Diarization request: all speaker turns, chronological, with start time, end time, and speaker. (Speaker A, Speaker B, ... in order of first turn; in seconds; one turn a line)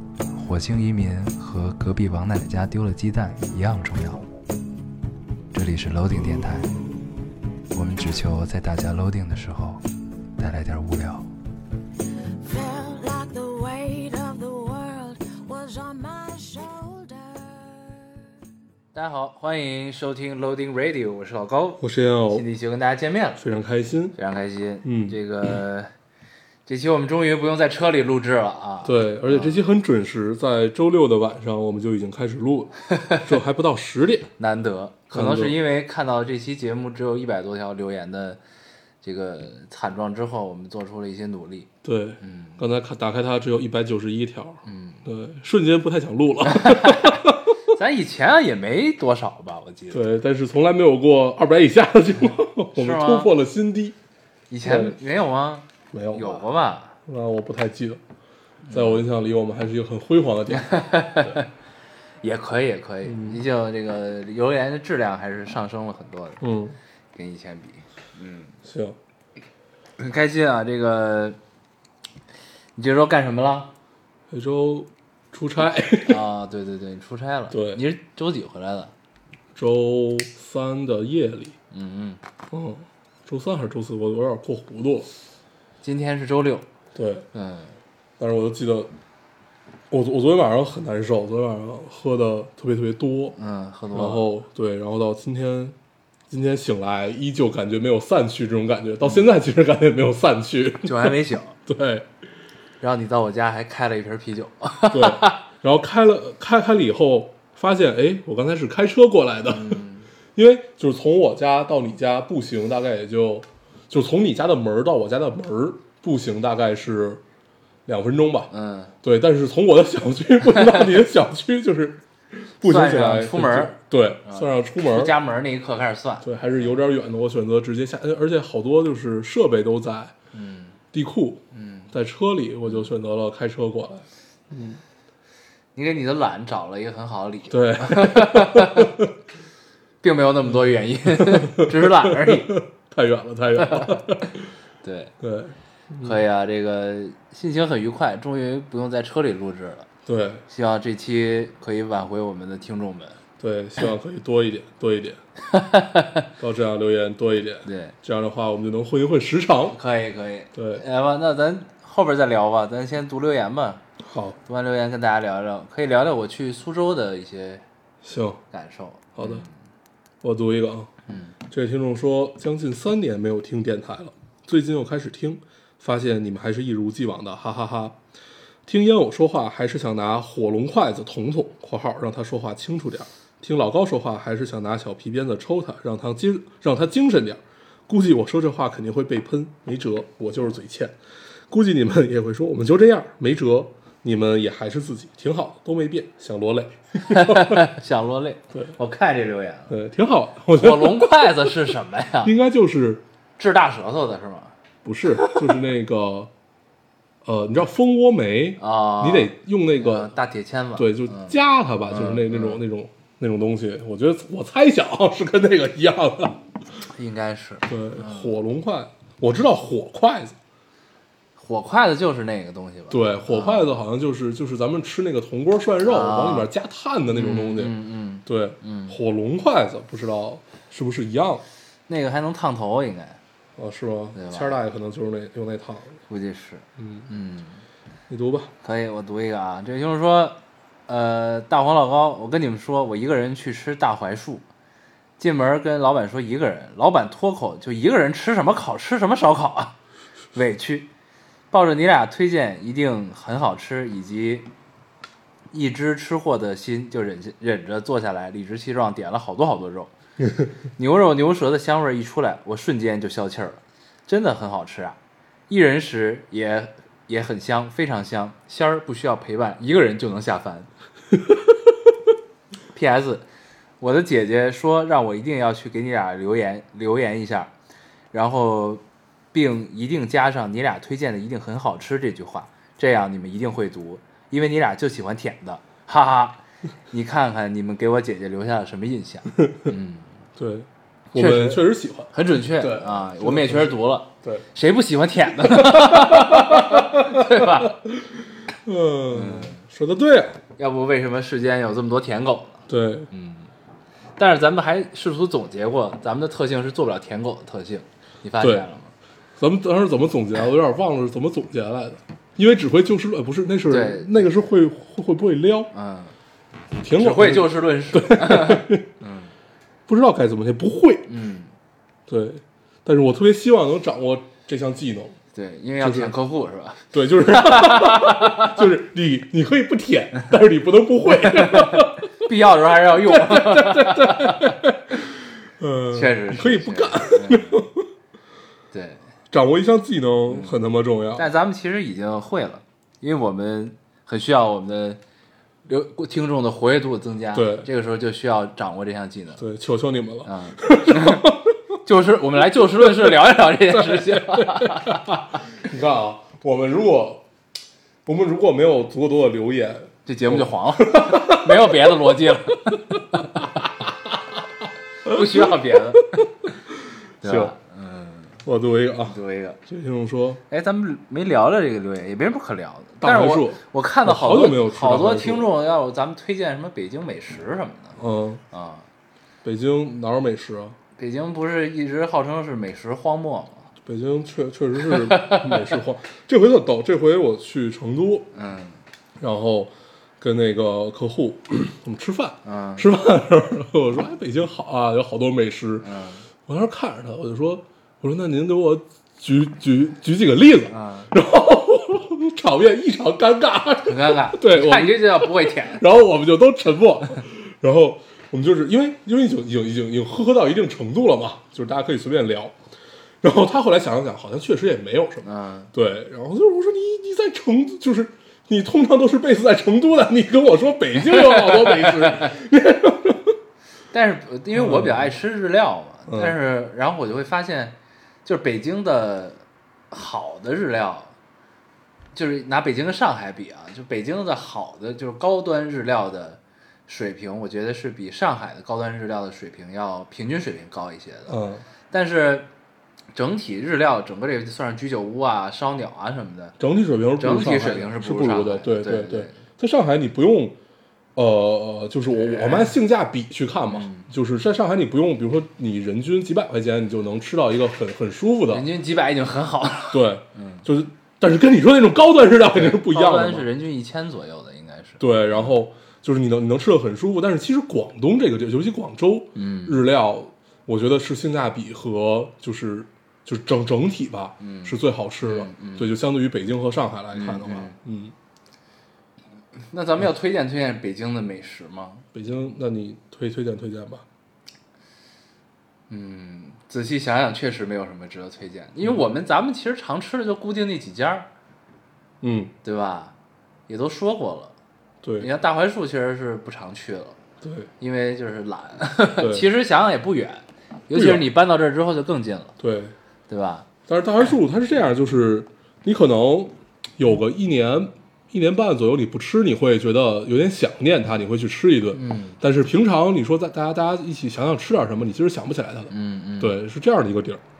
Speaker A: 0.3-4.2
Speaker A: 5.5-6.8
Speaker A: 7.7-9.8
Speaker A: 10.4-11.3
Speaker B: 12.4-18.1
Speaker A: 18.9-23.4
Speaker C: 21.8-22.4
Speaker C: 23.4-24.1
Speaker A: 24.1-25.9
Speaker C: 24.8-25.2
Speaker A: 26.6-29.6
Speaker C: 28.8-34.3
Speaker A: 34.4-38.4
Speaker C: 35.1-35.5
Speaker A: 39.0-41.7
Speaker C: 41.8-47.5
Speaker A: 42.2-42.6
Speaker A: 44.6-45.0
Speaker A: 46.4-50.0
Speaker C: 49.9-54.0
Speaker A: 52.7-53.3
Speaker A: 54.5-57.0
Speaker C: 54.6-55.0
Speaker C: 55.9-56.4
Speaker C: 57.0-58.0
Speaker A: 58.6-59.0
Speaker C: 58.7-61.4
Speaker A: 60.5-61.5
Speaker A: 62.2-66.4
Speaker C: 63.0-63.4
Speaker C: 66.4-66.8
Speaker A: 67.1-68.5
Speaker C: 68.6-69.0
Speaker A: 70.0-71.4
Speaker A: 72.8-73.7
Speaker C: 74.3-76.2
Speaker A: 76.0-78.9
Speaker C: 77.5-77.8
Speaker C: 79.5-81.5
Speaker A: 81.7-82.2
Speaker C: 82.5-85.1
Speaker A: 85.8-86.7
Speaker C: 86.9-87.3
Speaker A: 87.3-87.8
Speaker C: 88.2-88.9
Speaker C: 89.9-93.4
Speaker A: 93.4-94.2
Speaker C: 93.9-95.8
Speaker C: 96.3-101.2
Speaker A: 100.8-101.6
Speaker C: 101.7-102.0
Speaker A: 102.8-105.4
Speaker C: 104.9-109.8
Speaker A: 109.5-110.1
Speaker C: 110.3-117.2
Speaker C: 117.8-118.5
Speaker A: 118.5-118.9
Speaker C: 119.0-125.1
Speaker A: 122.6-126.3
Speaker C: 126.2-130.1
Speaker A: 130.3-130.8
Speaker C: 130.9-134.8
Speaker A: 131.5-131.9
Speaker A: 135.7-138.9
Speaker C: 137.5-139.1
Speaker A: 140.0-142.5
Speaker C: 141.2-144.5
Speaker A: 143.6-144.0
Speaker A: 144.8-145.1
Speaker C: 145.2-146.2
Speaker A: 146.0-149.9
Speaker C: 150.1-150.4
Speaker A: 150.5-153.2
Speaker C: 153.4-155.2
Speaker A: 155.5-156.3
Speaker C: 156.4-159.8
Speaker A: 157.6-157.9
Speaker A: 159.7-163.8
Speaker C: 160.5-160.8
Speaker C: 164.0-164.4
Speaker A: 164.4-167.6
Speaker C: 168.0-168.4
Speaker A: 168.5-169.5
Speaker C: 169.2-169.4
Speaker C: 170.2-170.9
Speaker A: 171.1-171.3
Speaker C: 171.5-178.0
Speaker C: 178.7-190.9
Speaker C: 191.5-197.6
Speaker A: 197.0-199.7
Speaker C: 199.7-201.3
Speaker A: 200.5-202.3
Speaker C: 202.2-203.0
Speaker A: 203.4-204.5
Speaker C: 204.8-206.3
Speaker A: 205.1-205.4
Speaker C: 207.2-210.1
Speaker A: 208.6-212.6
Speaker C: 210.8-216.4
Speaker A: 216.9-218.3
Speaker C: 217.7-220.3
Speaker A: 221.4-223.7
Speaker C: 222.9-227.7
Speaker A: 225.8-226.5
Speaker A: 227.1-229.0
Speaker C: 228.2-231.4
Speaker A: 231.9-233.2
Speaker C: 233.6-236.0
Speaker A: 234.1-234.6
Speaker A: 236.1-237.6
Speaker C: 236.8-237.1
Speaker C: 238.1-238.5
Speaker A: 238.6-244.4
Speaker A: 245.2-249.7
Speaker A: 250.3-250.9
Speaker A: 251.5-254.5
Speaker A: 255.5-259.9
Speaker A: 260.8-265.0
Speaker A: 265.5-270.7
Speaker A: 272.7-273.2
Speaker A: 273.8-277.5
Speaker A: 278.1-290.1
Speaker C: 290.4-294.4
Speaker A: 291.1-297.8
Speaker C: 295.6-300.4
Speaker A: 299.1-299.6
Speaker A: 300.6-303.5
Speaker C: 302.7-303.1
Speaker A: 304.2-308.9
Speaker C: 308.4-308.6
Speaker C: 309.4-315.7
Speaker A: 313.7-314.4
Speaker A: 315.7-316.1
Speaker C: 316.8-318.9
Speaker A: 316.9-319.3
Speaker C: 319.9-321.1
Speaker A: 321.1-321.5
Speaker C: 322.1-325.2
Speaker A: 325.3-328.6
Speaker C: 325.8-326.1
Speaker C: 326.9-332.1
Speaker A: 331.1-334.6
Speaker C: 333.0-337.9
Speaker A: 335.9-337.6
Speaker A: 338.7-339.0
Speaker C: 339.3-341.3
Speaker A: 340.3-340.6
Speaker A: 341.1-345.0
Speaker A: 345.6-349.4
Speaker C: 347.3-347.7
Speaker C: 349.4-351.6
Speaker A: 350.2-351.2
Speaker A: 351.8-355.4
Speaker C: 353.7-357.2
Speaker C: 358.1-361.9
Speaker A: 360.1-363.6
Speaker C: 362.7-363.4
Speaker C: 365.1-365.7
Speaker A: 365.1-366.3
Speaker C: 367.2-367.5
Speaker A: 367.2-368.4
Speaker C: 368.4-370.4
Speaker A: 369.1-369.6
Speaker A: 370.5-378.0
Speaker C: 373.0-375.5
Speaker C: 378.0-378.4
Speaker A: 378.5-378.9
Speaker C: 379.4-380.8
Speaker A: 381.0-383.7
Speaker C: 383.8-388.3
Speaker A: 384.8-385.8
Speaker A: 388.3-388.8
Speaker C: 389.2-395.9
Speaker A: 392.4-392.9
Speaker A: 395.8-396.3
Speaker C: 396.4-412.6
Speaker A: 400.7-401.1
Speaker A: 403.8-405.9
Speaker C: 413.2-423.4
Speaker A: 415.2-415.7
Speaker A: 421.1-422.3
Speaker A: 423.9-431.1
Speaker C: 424.5-425.1
Speaker C: 426.1-426.4
Speaker A: 432.1-441.4
Speaker C: 441.3-441.6
Speaker A: 441.9-442.5
Speaker A: 443.1-446.6
Speaker C: 446.6-450.6
Speaker A: 447.2-449.4
Speaker C: 451.1-458.6
Speaker A: 452.1-452.7
Speaker A: 453.7-454.1
Speaker A: 458.5-460.6
Speaker C: 459.9-463.5
Speaker A: 462.5-465.5
Speaker C: 465.0-478.1
Speaker A: 469.3-469.9
Speaker A: 474.4-475.9
Speaker A: 477.1-477.8
Speaker A: 479.7-482.1
Speaker C: 482.1-484.0
Speaker A: 485.9-491.3
Speaker C: 492.2-492.5
Speaker A: 492.6-493.1
Speaker A: 493.7-494.5
Speaker C: 495.0-495.3
Speaker A: 495.2-497.2
Speaker C: 497.4-497.7
Speaker A: 497.8-502.6
Speaker C: 499.2-499.5
Speaker C: 500.9-501.3
Speaker C: 502.6-502.9
Speaker A: 503.3-503.7
Speaker C: 503.9-517.4
Speaker A: 511.9-512.4
Speaker A: 515.9-516.6